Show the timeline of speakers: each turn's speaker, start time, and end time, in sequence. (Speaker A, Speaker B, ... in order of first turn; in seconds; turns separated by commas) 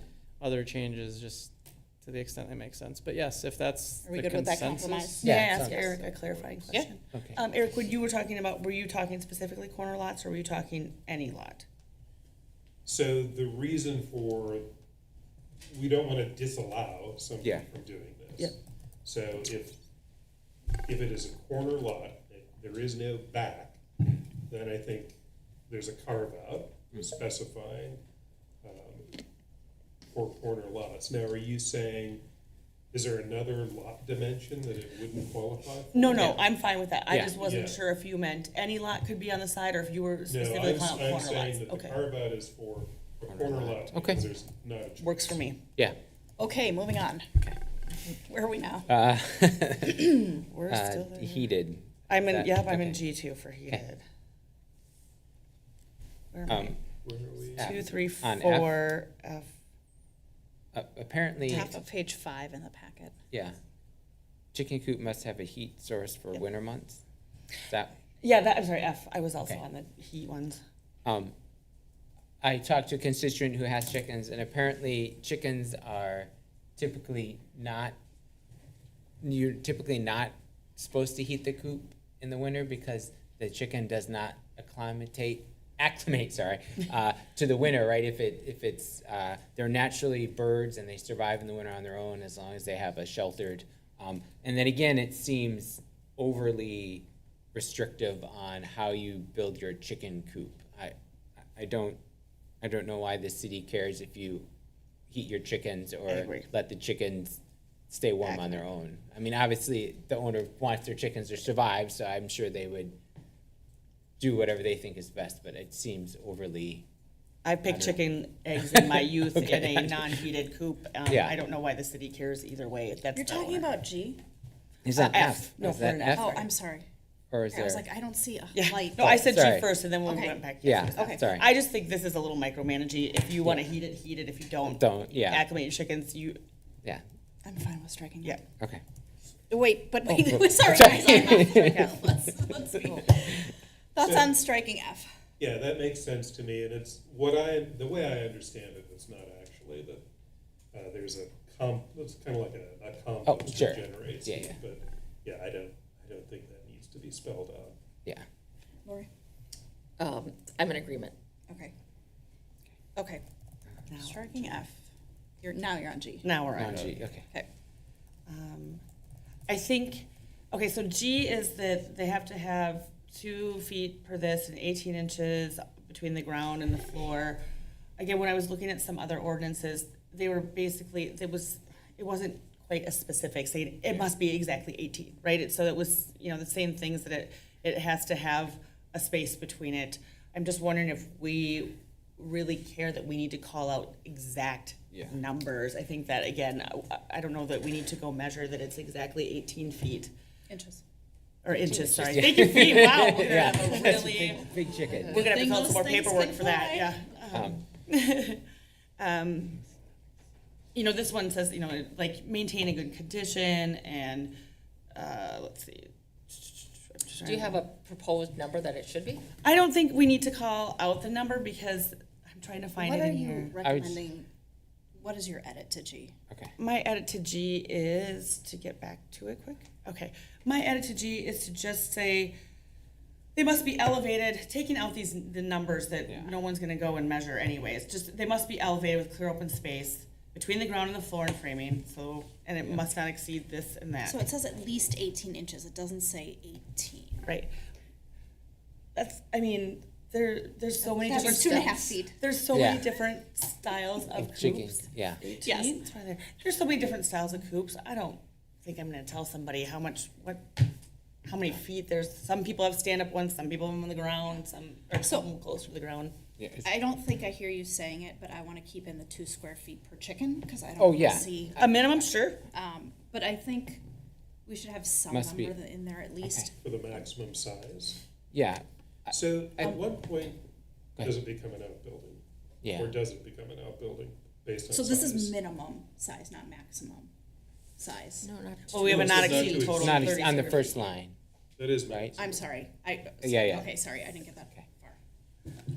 Speaker A: 0.4-5.2, Speaker B: 4.0-6.2, Speaker C: 5.2-5.8, Speaker D: 5.2-11.7, Speaker C: 7.1-7.4, Speaker E: 12.9-14.7, Speaker E: 15.7-18.5, Speaker E: 19.1-19.8, Speaker E: 20.9-23.8, Speaker E: 24.5-28.0, Speaker E: 28.6-29.1, Speaker E: 30.1-32.2, Speaker E: 32.9-36.3, Speaker D: 35.9-42.1, Speaker C: 37.1-37.4, Speaker E: 37.4-37.8, Speaker E: 40.3-45.4, Speaker C: 43.3-44.2, Speaker D: 45.0-45.6, Speaker B: 46.4-47.5, Speaker B: 48.0-48.9, Speaker C: 48.9-53.0, Speaker D: 50.5-51.5, Speaker D: 52.1-54.0, Speaker D: 56.3-56.8, Speaker C: 56.5-56.8, Speaker E: 57.0-57.7, Speaker C: 57.6-58.7, Speaker D: 57.6-59.5, Speaker C: 60.7-61.7, Speaker B: 61.5-63.1, Speaker C: 63.3-63.6, Speaker C: 64.5-67.0, Speaker D: 68.2-70.6, Speaker C: 71.0-71.3, Speaker C: 72.4-78.0, Speaker C: 79.2-101.0, Speaker C: 101.5-102.0, Speaker C: 102.6-104.5, Speaker C: 105.1-107.4, Speaker D: 106.1-106.5, Speaker C: 107.9-113.0, Speaker D: 108.2-108.6, Speaker C: 114.2-116.8, Speaker D: 117.4-123.7, Speaker C: 117.7-118.0, Speaker C: 118.7-120.1, Speaker C: 121.1-121.3, Speaker B: 123.1-124.2, Speaker C: 124.8-126.3, Speaker D: 124.9-126.5, Speaker B: 126.1-126.9, Speaker C: 127.3-127.8, Speaker B: 127.5-129.2, Speaker D: 128.5-136.4, Speaker C: 129.1-129.7, Speaker B: 130.0-131.3, Speaker C: 130.6-131.5, Speaker C: 134.7-135.4, Speaker B: 137.4-138.4, Speaker B: 139.5-145.1, Speaker C: 140.1-141.9, Speaker D: 140.9-142.1, Speaker C: 142.5-142.8, Speaker E: 145.4-150.0, Speaker E: 150.7-157.8, Speaker C: 153.3-154.6, Speaker F: 160.0-161.1, Speaker B: 163.0-163.2, Speaker D: 163.9-164.7, Speaker B: 163.9-164.8, Speaker B: 165.4-166.4, Speaker D: 166.2-167.0, Speaker C: 166.6-167.2, Speaker D: 168.3-168.8, Speaker D: 169.5-177.4, Speaker D: 178.0-200.1, Speaker B: 200.5-200.8, Speaker D: 201.4-204.5, Speaker C: 201.5-205.3, Speaker B: 203.3-204.1, Speaker B: 205.0-207.2, Speaker D: 205.1-208.4, Speaker C: 207.3-207.6, Speaker D: 209.0-209.6, Speaker D: 210.7-214.4, Speaker D: 214.9-217.6, Speaker F: 217.2-219.2, Speaker D: 219.4-223.6, Speaker B: 222.8-224.3, Speaker C: 223.6-224.0, Speaker B: 224.9-226.2, Speaker D: 226.6-232.4, Speaker D: 233.3-244.2, Speaker B: 244.0-247.3, Speaker D: 248.9-260.7, Speaker B: 250.8-252.2, Speaker C: 252.5-252.9, Speaker C: 254.2-255.2, Speaker B: 255.4-255.8, Speaker D: 261.2-266.1, Speaker B: 265.0-265.3, Speaker C: 266.4-266.7, Speaker B: 266.6-273.8, Speaker C: 270.8-271.3, Speaker D: 271.6-272.4, Speaker B: 274.5-276.6, Speaker C: 275.1-275.6, Speaker E: 276.6-278.0, Speaker C: 278.3-279.7, Speaker E: 279.1-280.4, Speaker E: 281.0-282.2, Speaker C: 282.6-283.0, Speaker E: 282.8-285.3, Speaker B: 284.7-287.1, Speaker B: 287.8-288.3, Speaker F: 288.2-289.7, Speaker D: 288.7-290.9, Speaker E: 288.9-290.1, Speaker B: 289.4-290.3, Speaker C: 289.8-291.2, Speaker E: 291.6-292.3, Speaker C: 291.9-292.2, Speaker B: 292.1-295.0, Speaker C: 293.2-293.7